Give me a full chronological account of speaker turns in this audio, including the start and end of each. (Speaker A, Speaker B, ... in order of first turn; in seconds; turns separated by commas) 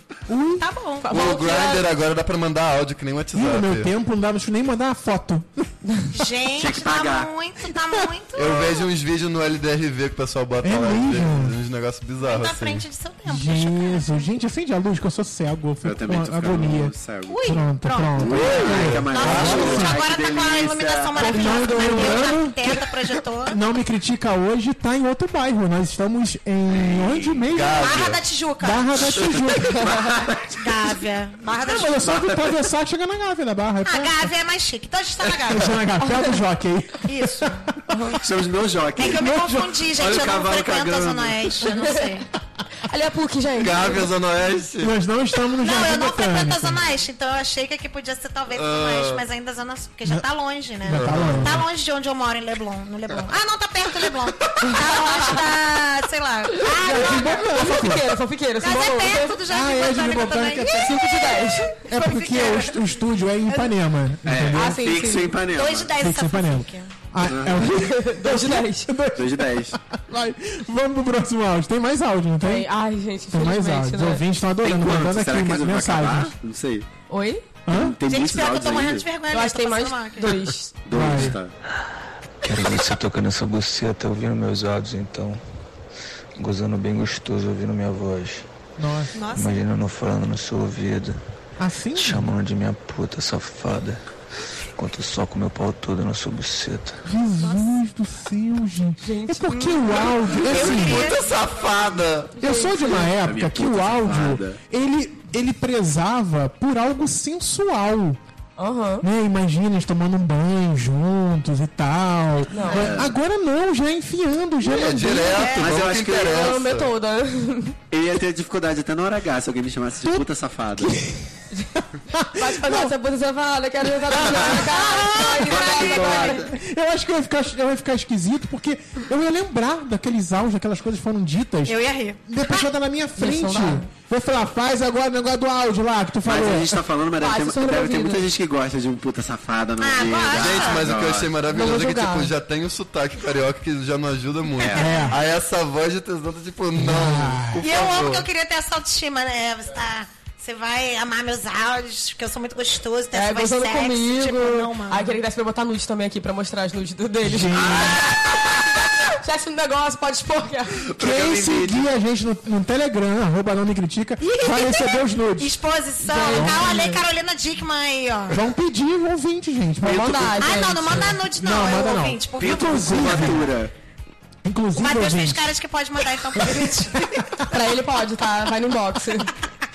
Speaker A: 0.3-0.7, Speaker B: 0.6-1.1, Speaker C: 1.0-1.9, Speaker D: 1.1-3.9, Speaker A: 3.3-5.7, Speaker B: 6.1-8.9, Speaker E: 6.6-7.3, Speaker D: 8.3-12.9, Speaker A: 10.6-11.6, Speaker B: 12.2-14.1, Speaker A: 13.3-20.0, Speaker E: 15.8-17.4, Speaker B: 17.3-23.6, Speaker E: 18.2-21.3, Speaker D: 18.4-20.0, Speaker A: 21.2-22.9, Speaker C: 21.2-22.3, Speaker A: 23.5-28.1, Speaker E: 26.7-27.5, Speaker D: 27.5-28.2, Speaker B: 27.8-29.2, Speaker A: 28.6-30.0, Speaker E: 29.0-30.9, Speaker B: 30.6-32.2, Speaker A: 31.6-34.3, Speaker E: 32.1-32.6, Speaker B: 33.9-35.9, Speaker A: 35.5-38.2, Speaker C: 36.0-36.4, Speaker B: 37.0-37.7, Speaker C: 37.9-38.2, Speaker E: 38.2-39.4, Speaker B: 39.0-42.3, Speaker A: 39.0-39.9, Speaker E: 40.0-41.6, Speaker C: 41.7-42.1, Speaker C: 42.8-44.1, Speaker D: 43.6-44.9, Speaker A: 44.8-46.8, Speaker B: 45.6-57.6, Speaker D: 48.5-49.2, Speaker A: 50.9-51.6, Speaker D: 50.9-51.6, Speaker A: 56.7-58.1, Speaker C: 56.8-59.4, Speaker B: 58.6-63.7, Speaker A: 59.5-61.2, Speaker C: 60.9-61.7, Speaker A: 61.9-64.8, Speaker E: 64.2-65.9, Speaker C: 64.5-65.3, Speaker B: 65.5-66.9, Speaker A: 66.0-72.7, Speaker E: 67.2-67.7, Speaker C: 67.7-68.9, Speaker E: 69.2-69.8, Speaker C: 72.4-74.2, Speaker A: 73.3-76.3, Speaker E: 74.6-76.9, Speaker C: 77.1-77.4, Speaker A: 77.7-78.0, Speaker E: 77.7-79.1, Speaker B: 78.1-80.4, Speaker C: 79.3-80.7, Speaker E: 80.8-81.5, Speaker A: 80.9-81.4, Speaker F: 82.4-85.4, Speaker F: 86.4-88.5, Speaker A: 88.8-89.2, Speaker B: 89.1-89.6, Speaker F: 89.3-91.2, Speaker A: 91.6-92.3, Speaker F: 92.0-94.0, Speaker F: 94.8-97.1, Speaker A: 97.1-101.1, Speaker B: 97.4-97.8, Speaker C: 99.0-99.5, Speaker B: 99.5-101.3, Speaker D: 100.3-102.3, Speaker A: 102.4-108.2, Speaker C: 102.4-103.1, Speaker E: 103.2-104.6, Speaker C: 108.6-109.1, Speaker A: 109.0-115.5, Speaker C: 112.5-112.9, Speaker E: 112.7-113.2, Speaker D: 114.6-116.9, Speaker B: 115.1-115.8, Speaker E: 115.6-116.6, Speaker C: 116.2-117.8, Speaker E: 117.9-121.0, Speaker A: 120.0-122.9, Speaker C: 122.3-126.4, Speaker B: 124.2-126.4, Speaker E: 125.4-126.5, Speaker A: 126.4-136.8, Speaker B: 131.7-132.7, Speaker C: 133.2-133.9, Speaker E: 136.2-141.3, Speaker C: 137.2-138.3, Speaker B: 139.8-140.9, Speaker D: 140.3-148.3, Speaker C: 141.5-142.3, Speaker E: 144.6-144.8, Speaker B: 144.6-145.3, Speaker A: 144.8-145.2, Speaker A: 146.8-147.7, Speaker B: 147.6-155.2, Speaker C: 153.1-157.8, Speaker A: 157.2-158.0, Speaker E: 157.8-158.4, Speaker C: 158.9-160.7, Speaker E: 160.9-161.9, Speaker A: 161.0-165.6, Speaker B: 164.4-168.4, Speaker C: 166.0-167.0, Speaker A: 166.3-166.8, Speaker A: 168.3-170.6, Speaker C: 169.8-171.2, Speaker B: 170.4-173.4, Speaker A: 171.2-173.5, Speaker E: 172.4-173.7, Speaker A: 174.4-175.5, Speaker B: 174.8-177.5, Speaker A: 176.4-176.9, Speaker C: 177.5-179.3